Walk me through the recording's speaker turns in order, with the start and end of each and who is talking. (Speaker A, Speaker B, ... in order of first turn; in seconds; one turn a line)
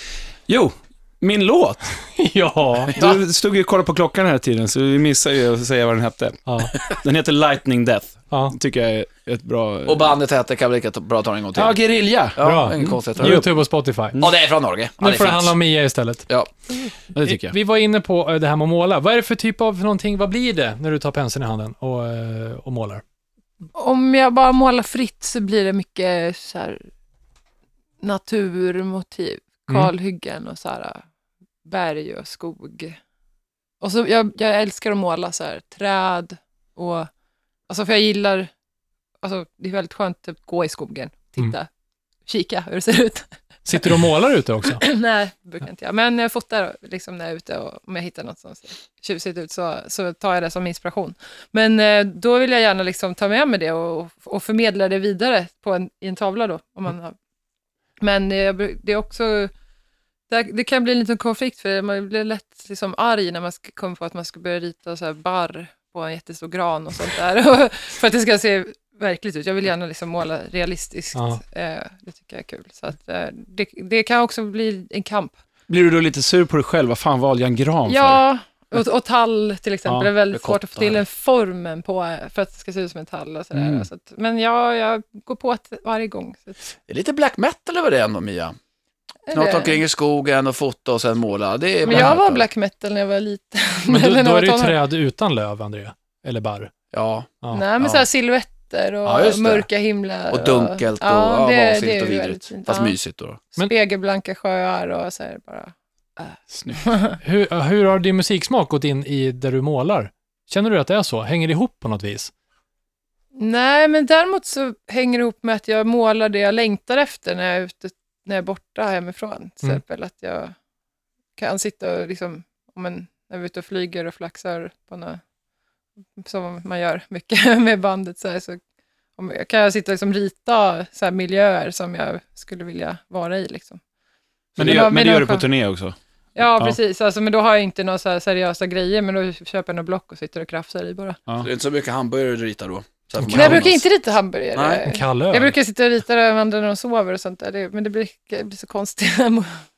Speaker A: 0.5-2.0
Speaker B: 2.1-3.0
Speaker A: 2.9-10.1
Speaker B: 6.5-6.7
Speaker B: 8.3-8.6
Speaker C: 9.9-11.8
Speaker A: 11.5-13.5
Speaker C: 12.3-13.5
Speaker B: 12.4-14.2
Speaker C: 14.2-15.6
Speaker B: 15.0-16.3
Speaker A: 17.1-17.6
Speaker B: 17.2-23.0
Speaker D: 23.8-26.8
Speaker D: 28.0-31.0
Speaker D: 31.6-33.0
Speaker D: 33.8-37.1
Speaker D: 37.7-38.5
Speaker D: 39.2-41.7
Speaker D: 42.3-43.3
Speaker B: 43.6-44.8
Speaker D: 44.7-57.1
Speaker D: 58.0-59.5
Speaker D: 60.3-75.3
Speaker B: 71.2-71.4
Speaker A: 75.7-78.2
Speaker D: 77.9-86.7
Speaker C: 80.3-81.0
Speaker A: 83.5-83.9
Speaker C: 86.9-88.5
Speaker D: 89.3-89.8
Speaker C: 89.3-92.5
Speaker D: 91.8-94.8
Speaker B: 93.9-96.7
Speaker C: 96.9-98.0
Speaker D: 97.5-103.0
Speaker C: 99.0-99.7
Speaker C: 100.3-103.4
Speaker D: 103.5-107.2
Speaker A: 106.5-106.8
Speaker B: 107.2-112.3
Speaker D: 113.4-120.5
Speaker D: 121.4-125.2
Speaker D: 126.2-128.6
Speaker D: 129.2-133.8
Speaker D: 134.6-135.5
Speaker A: 134.6-136.0
Speaker D: 136.4-141.2
Speaker C: 141.4-143.8
Speaker D: 143.3-149.5
Speaker C: 144.5-144.8
Speaker B: 144.9-145.6